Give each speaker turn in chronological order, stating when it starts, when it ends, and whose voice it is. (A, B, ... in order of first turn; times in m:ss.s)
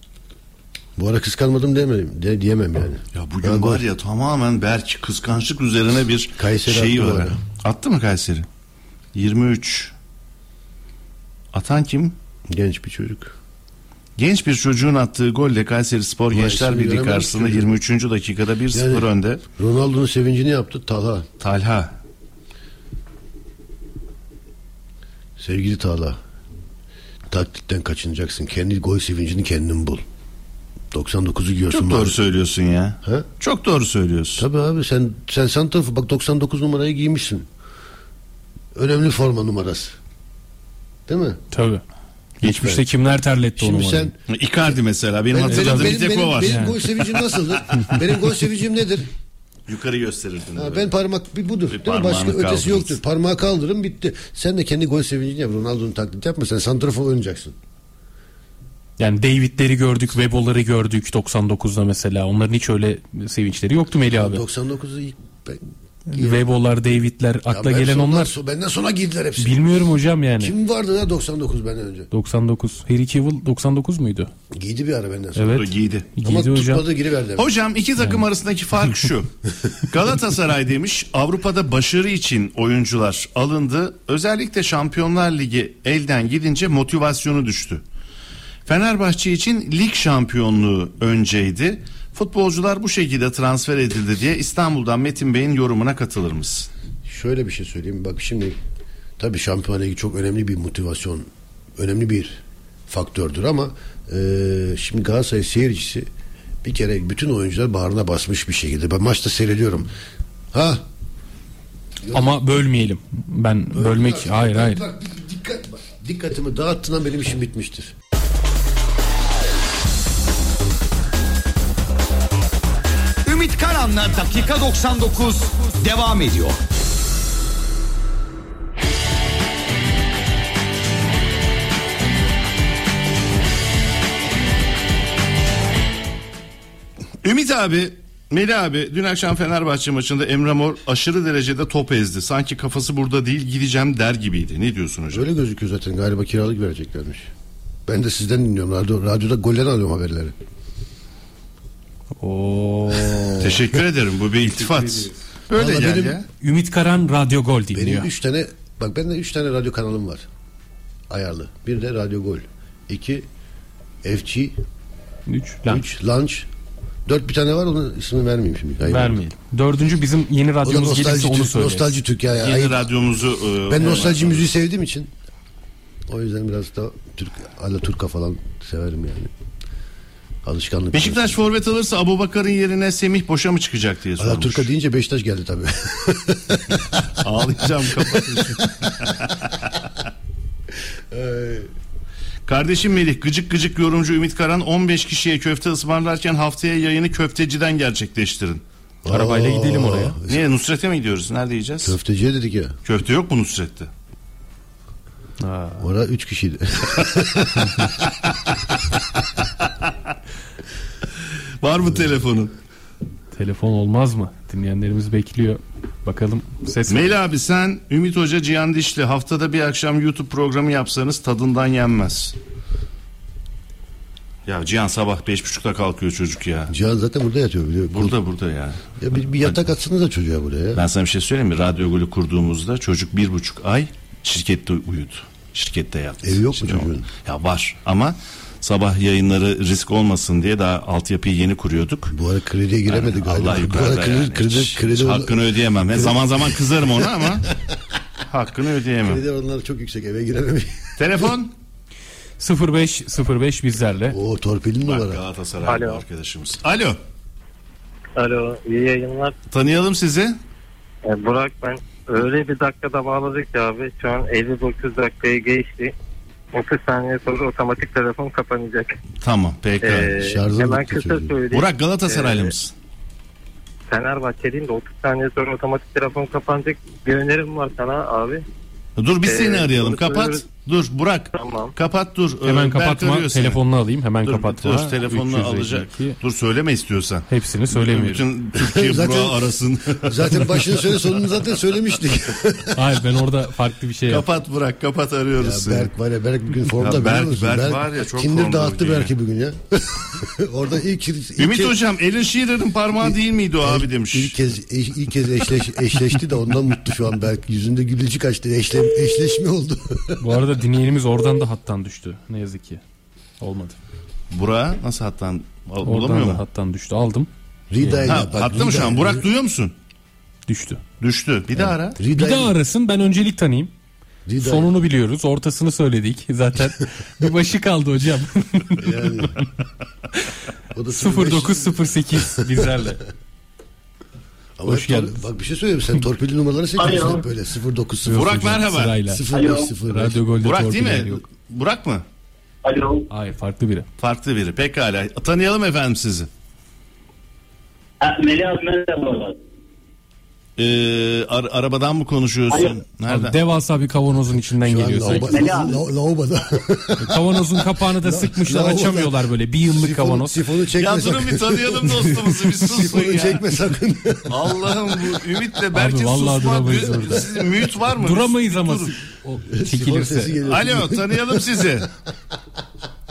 0:01.0-0:03.8 A
0:03.1-0:08.4 B
0:06.4-0:07.4 A
0:09.1-0:09.9 B
0:11.5-0:12.1 B
0:12.5-0:13.3 A
0:14.2-0:19.4 B
0:16.3-0:17.7 A
0:18.7-0:21.3 A
0:21.4-0:22.0 B
0:25.4-0:26.2 A
0:27.3-0:30.0 A
0:30.9-0:32.2 A
0:31.7-0:34.4 B
0:34.4-0:37.4 A
0:38.7-0:40.0 A
0:41.1-0:41.4 A
0:41.5-0:41.8 C
0:42.4-0:44.1 C
0:42.4-0:42.8 A
0:43.6-0:44.2 A
0:44.3-0:48.0 B
0:45.3-0:49.1 A
0:45.4-0:46.7 C
0:49.7-0:50.9 B
0:50.5-0:57.5 A
0:51.7-0:53.0 B
0:59.0-1:04.4 C
1:04.1-1:05.6 A
1:06.1-1:08.3 C
1:06.1-1:06.5 A
1:07.5-1:09.6 A
1:09.4-1:10.5 C
1:10.4-1:12.1 A
1:12.1-1:14.3 C
1:14.5-1:15.7 A
1:15.3-1:16.8 C
1:15.5-1:16.1 B
1:16.2-1:17.5 A
1:17.4-1:19.3 B
1:19.9-1:27.8 B
1:28.6-1:36.7 B
1:37.0-1:38.6 A
1:39.2-1:46.1 A
1:46.6-1:49.9 A
1:50.5-1:50.8 A
1:52.0-1:52.3 A
1:52.1-1:54.8 C
1:53.7-1:57.9 A
2:03.2-2:06.6 D
2:17.2-2:25.3 B
2:25.1-2:27.3 A
2:27.8-2:30.3 A
2:32.2-2:33.6 C
2:33.4-2:36.2 B
2:34.6-2:35.1 C
2:35.5-2:36.2 A
2:36.4-2:38.1 C
2:37.7-2:40.2 A
2:41.1-2:43.2 A
2:44.0-2:44.6 A
2:45.3-2:45.8 C
2:45.7-2:46.5 A
2:47.0-2:49.2 A
2:48.8-2:52.0 C
2:50.6-2:52.9 A
2:52.4-2:54.4 B
2:53.7-2:55.1 A
2:56.1-2:59.3 A
3:00.4-3:01.4 A
3:00.9-3:04.7 B
3:04.2-3:09.0 A
3:07.2-3:09.7 B
3:11.1-3:11.7 A
3:12.5-3:18.6 B
3:19.0-3:20.4 A
3:19.1-3:20.2 C
3:20.3-3:22.0 B
3:21.8-3:22.8 A
3:22.8-3:23.9 B
3:25.4-3:25.9 C
3:25.8-3:27.9 A
3:31.6-3:32.5 B
3:33.3-3:37.1 C
3:36.9-3:42.3 B
3:44.4-3:46.7 B
3:46.7-3:48.2 A
3:47.9-3:48.8 B
3:49.0-3:50.8 A
3:50.7-4:02.1 B
3:56.2-3:57.1 A
4:02.1-4:07.7 A
4:02.9-4:07.5 B
4:08.3-4:09.2 B
4:09.0-4:10.9 A
4:11.0-4:11.5 B
4:12.4-4:14.2 C
4:14.1-4:15.2 A
4:14.8-4:17.0 B
4:15.6-4:16.0 E
4:18.2-4:19.3 E
4:19.5-4:20.4 B
4:21.0-4:25.9 E
4:26.5-4:28.9 E
4:29.2-4:30.1 B
4:29.8-4:32.5 E
4:30.2-4:31.3 A
4:31.5-4:32.7 B
4:33.9-4:38.4 E
4:39.0-4:43.6 B
4:39.2-4:40.4 E
4:41.3-4:41.7 E
4:42.4-4:46.2 C
4:44.2-4:50.6 B
4:47.3-4:48.2 C
4:48.5-4:52.8 A
4:52.7-4:54.2 C
4:54.1-4:55.9 B
4:55.4-5:01.8 A
4:56.8-4:59.1 B
5:01.4-5:04.4 B
5:03.0-5:10.2 A
5:10.2-5:12.8 C
5:13.4-5:13.8 C
5:14.3-5:16.4 B
5:15.8-5:17.3 C
5:17.7-5:19.3 A
5:17.8-5:18.1 C
5:18.0-5:19.7 B
5:20.5-5:20.8 C
5:21.0-5:22.0 B
5:21.6-5:22.6 A
5:22.1-5:23.7 C
5:24.2-5:24.7 A
5:24.4-5:28.8 C
5:28.8-5:29.4 A
5:30.7-5:32.8 A
5:30.9-5:33.0 C
5:34.6-5:40.2 A
5:34.6-5:35.2 C
5:36.8-5:37.2 F
5:38.0-5:39.2 C
5:38.1-5:39.0 B
5:39.3-5:39.7 F
5:39.8-5:41.2 C
5:40.4-5:42.0 B
5:42.6-5:43.0 F
5:43.1-5:43.9 C
5:44.0-5:46.3 B
5:48.0-5:49.3 F
5:50.6-5:53.4 B
5:52.5-5:52.8 F
5:53.1-5:55.5 C
5:54.6-6:05.2 A
5:55.3-5:55.7 F
5:57.0-6:00.4 C
6:00.8-6:03.4 B
6:04.3-6:08.9 B
6:05.7-6:07.2 C
6:08.0-6:10.4 C
6:09.5-6:11.8 A
6:10.4-6:11.9 B